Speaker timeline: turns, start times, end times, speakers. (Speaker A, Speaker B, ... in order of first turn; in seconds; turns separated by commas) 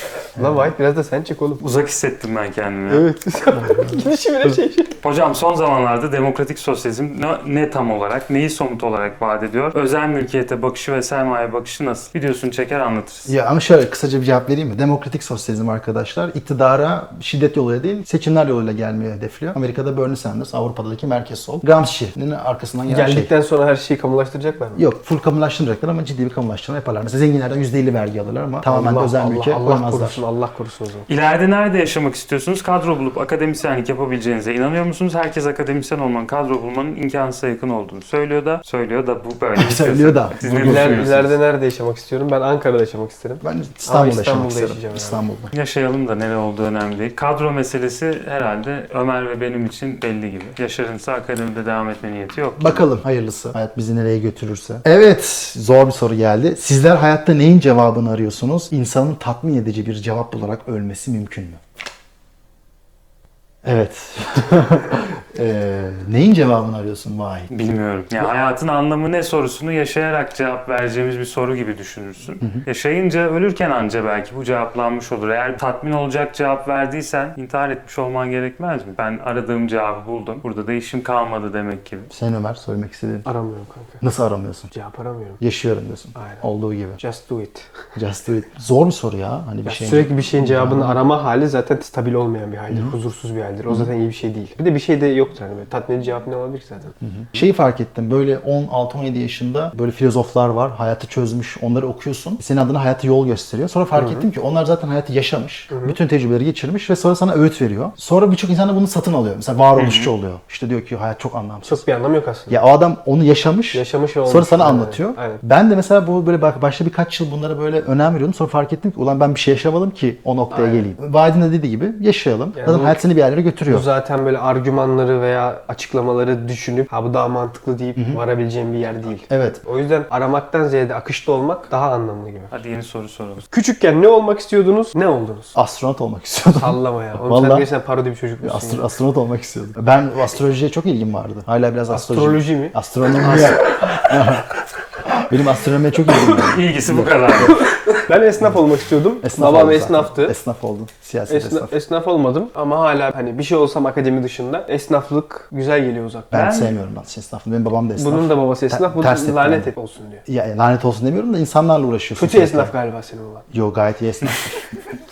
Speaker A: 0.3-1.6, Speaker B: 0.4-0.7, Speaker C: 1.6-3.1, Speaker A: 2.9-5.0, Speaker B: 3.5-4.5, Speaker C: 5.0-13.3, Speaker B: 13.2-23.3, Speaker A: 22.9-24.8, Speaker B: 24.8-30.2, Speaker A: 28.6-31.1, Speaker C: 31.1-41.3, Speaker B: 39.6-41.3, Speaker A: 40.4-45.2, Speaker B: 43.4-45.5, Speaker C: 45.5-52.8, Speaker B: 52.6-61.6, Speaker B: 63.6-67.5, Speaker C: 67.5-82.1, Speaker B: 82.1-83.3, Speaker A: 83.2-84.0, Speaker B: 84.0-84.7, Speaker A: 84.7-85.4, Speaker B: 85.4-87.0, Speaker A: 86.1-86.4, Speaker A: 87.0-87.7, Speaker B: 87.9-91.0, Speaker A: 89.6-96.9, Speaker B: 97.0-111.8, Speaker A: 104.0-104.2, Speaker A: 105.7-106.0, Speaker C: 109.8-110.1, Speaker A: 111.7-112.6, Speaker B: 112.5-123.9, Speaker A: 113.7-115.4, Speaker A: 120.5-120.9, Speaker A: 122.5-123.0, Speaker A: 123.7-132.5, Speaker B: 129.3-129.6, Speaker C: 132.5-133.4, Speaker A: 133.5-135.5, Speaker B: 135.5-137.7, Speaker A: 136.5-138.8, Speaker B: 138.4-144.5, Speaker A: 141.9-144.0, Speaker C: 143.2-143.5, Speaker B: 145.2-147.2, Speaker C: 146.4-147.8, Speaker A: 147.4-150.3, Speaker B: 149.2-151.7, Speaker A: 151.3-156.3, Speaker B: 156.3-159.7, Speaker C: 156.3-156.7, Speaker A: 158.0-160.2, Speaker B: 160.2-162.7, Speaker A: 162.2-163.4, Speaker B: 163.5-164.6